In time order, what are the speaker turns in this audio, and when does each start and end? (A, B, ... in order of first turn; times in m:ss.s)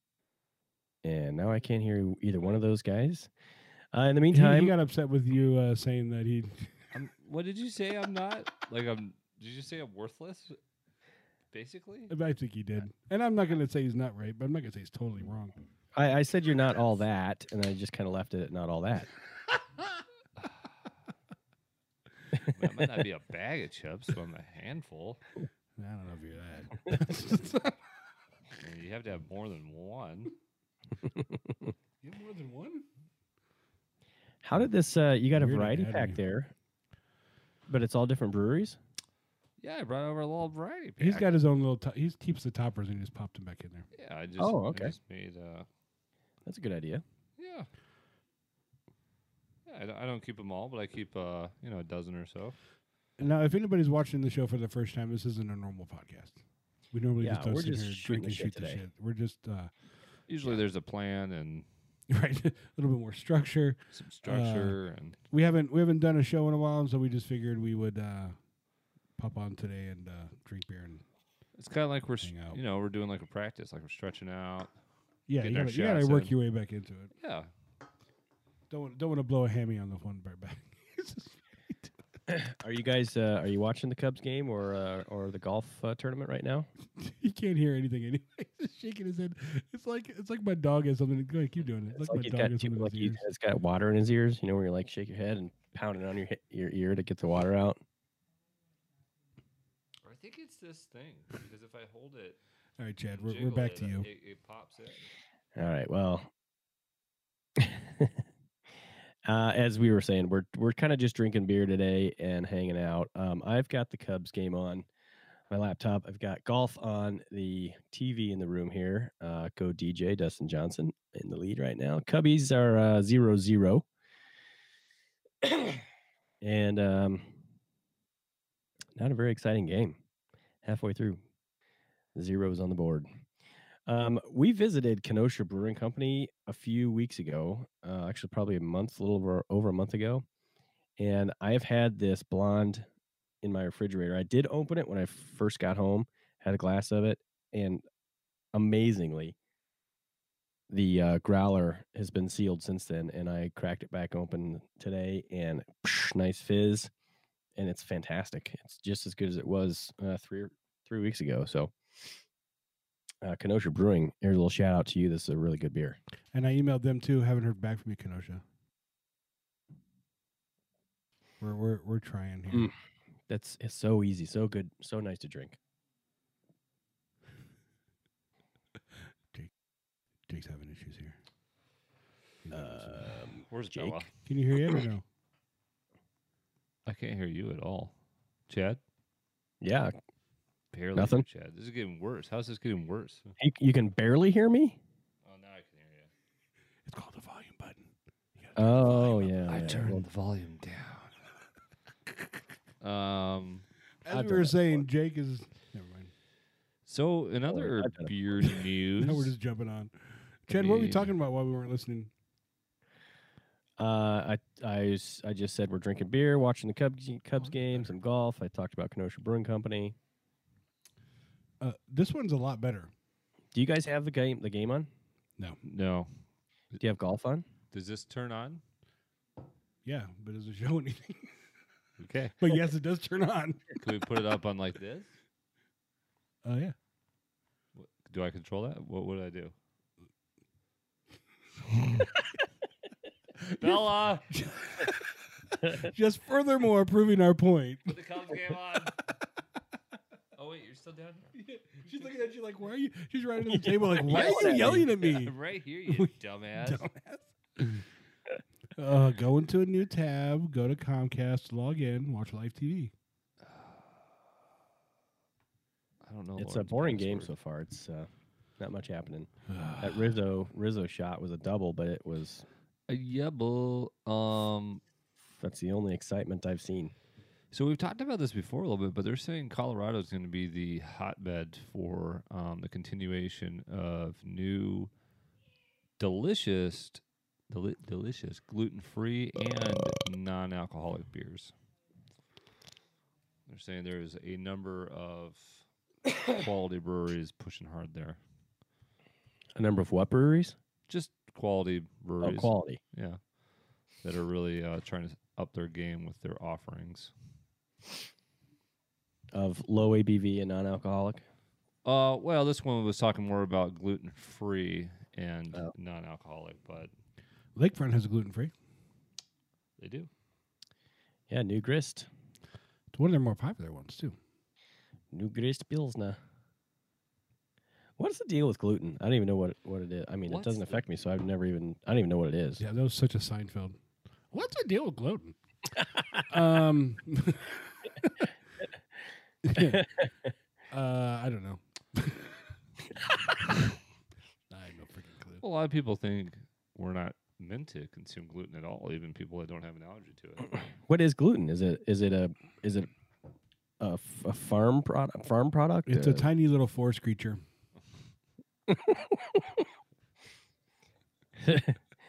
0:01.0-0:03.3 A
0:03.9-0:04.7 A
0:04.3-0:06.7 B
0:06.9-0:10.6 C
0:11.5-0:12.1 C
0:12.1-0:15.5 B
0:15.9-0:19.1 A
0:22.5-0:25.2 C
0:25.8-0:27.8 B
0:28.6-0:30.3 C
0:32.0-0:32.8 B
0:34.4-0:36.5 A
0:35.3-0:36.2 B
0:37.7-0:38.8 A
0:39.6-0:41.3 C
0:41.0-0:43.9 B
0:43.9-0:45.7 C
0:44.4-0:44.9 A
0:46.4-0:47.0 A
0:47.4-0:47.7 C
0:49.7-0:52.6 C
0:53.2-0:56.4 B
0:56.9-0:59.7 B
0:57.2-0:58.8 A
1:00.3-1:01.6 C
1:02.1-1:04.8 B
1:03.9-1:05.2 C
1:05.3-1:08.4 B
1:09.2-1:11.0 B
1:11.6-1:14.7 C
1:12.2-1:12.6 B
1:15.3-1:17.1 B
1:15.4-1:16.3 C
1:17.2-1:17.5 C
1:18.7-1:21.9 B
1:22.3-1:26.7 A
1:27.0-1:33.2 B
1:31.9-1:37.8 A
1:40.0-1:42.4 C
1:42.8-1:44.1 B
1:43.1-1:45.1 C
1:45.6-1:46.3 A
1:47.6-1:48.2 A
1:49.2-1:54.9 A
1:55.5-2:03.8 A
2:05.4-2:05.7 A
2:06.4-2:07.3 A
2:09.0-2:10.0 A
2:10.6-2:11.2 A
2:12.1-2:13.1 A
2:13.9-2:20.2 A
2:21.0-2:22.8 A
2:23.4-2:27.8 A
2:28.5-2:29.4 A
2:30.7-2:36.9 A
2:37.6-2:41.7 A
2:43.2-2:46.0 A
2:46.3-2:48.4 B
2:51.4-2:52.7 B
2:53.3-2:55.6 A
3:00.3-3:01.2 B
3:02.4-3:03.2 B
3:02.5-3:04.0 A
3:03.5-3:04.1 C
3:04.2-3:05.0 B
3:06.8-3:07.9 C
3:08.5-3:08.8 C
3:09.6-3:09.9 A
3:10.7-3:13.3 C
3:10.9-3:11.2 A
3:13.4-3:14.8 A
3:15.2-3:16.1 C
3:16.8-3:19.6 B
3:18.6-3:20.0 A
3:19.0-3:21.1 C
3:22.8-3:23.6 C
3:24.0-3:26.1 B
3:24.1-3:24.8 A
3:26.8-3:29.3 C
3:27.5-3:28.1 A
3:29.0-3:29.9 B
3:30.4-3:32.1 B
3:30.5-3:31.1 C
3:33.8-3:40.0 A
3:37.4-3:37.9 B
3:41.6-3:42.9 B
3:43.5-3:44.9 A
3:45.6-3:46.1 C
3:46.8-3:47.4 A
3:47.7-3:48.6 C
3:49.8-3:51.4 B
3:52.0-3:52.4 C
3:52.4-3:53.8 B
3:53.8-3:55.1 C
3:56.4-3:56.7 B
3:57.7-3:59.5 C
4:03.4-4:08.0 B
4:03.6-4:04.3 C
4:07.9-4:09.0 C
4:10.4-4:11.3 C
4:11.3-4:15.3 B
4:13.5-4:14.9 A
4:14.1-4:16.8 C
4:15.9-4:17.8 B
4:18.8-4:22.9 B
4:23.4-4:23.8 C
4:26.0-4:27.3 C
4:26.4-4:32.4 A
4:29.5-4:30.2 B
4:32.9-4:34.8 C
4:35.4-4:36.9 A
4:37.5-4:44.9 C
4:46.0-4:51.5 C
4:53.5-4:55.6 C
4:56.2-4:58.2 C
4:59.6-5:00.6 A
5:00.9-5:03.2 C
5:02.2-5:02.8 A
5:04.0-5:07.1 C
5:09.3-5:11.2 A
5:11.8-5:16.9 C
5:17.5-5:18.5 B
5:19.8-5:20.1 C
5:21.3-5:22.1 A
5:22.9-5:24.2 B
5:25.1-5:26.2 A
5:28.0-5:32.6 A
5:30.3-5:30.8 C
5:32.6-5:33.8 B
5:34.3-5:35.4 B
5:36.3-5:38.3 B
5:39.4-5:39.8 B
5:39.6-5:40.1 A
5:40.7-5:42.4 B
5:44.5-5:45.4 B
5:45.4-5:50.6 C
5:50.9-5:52.9 A
5:53.8-5:56.3 A
5:55.8-5:57.4 B
5:58.7-5:59.4 A
6:01.4-6:01.8 A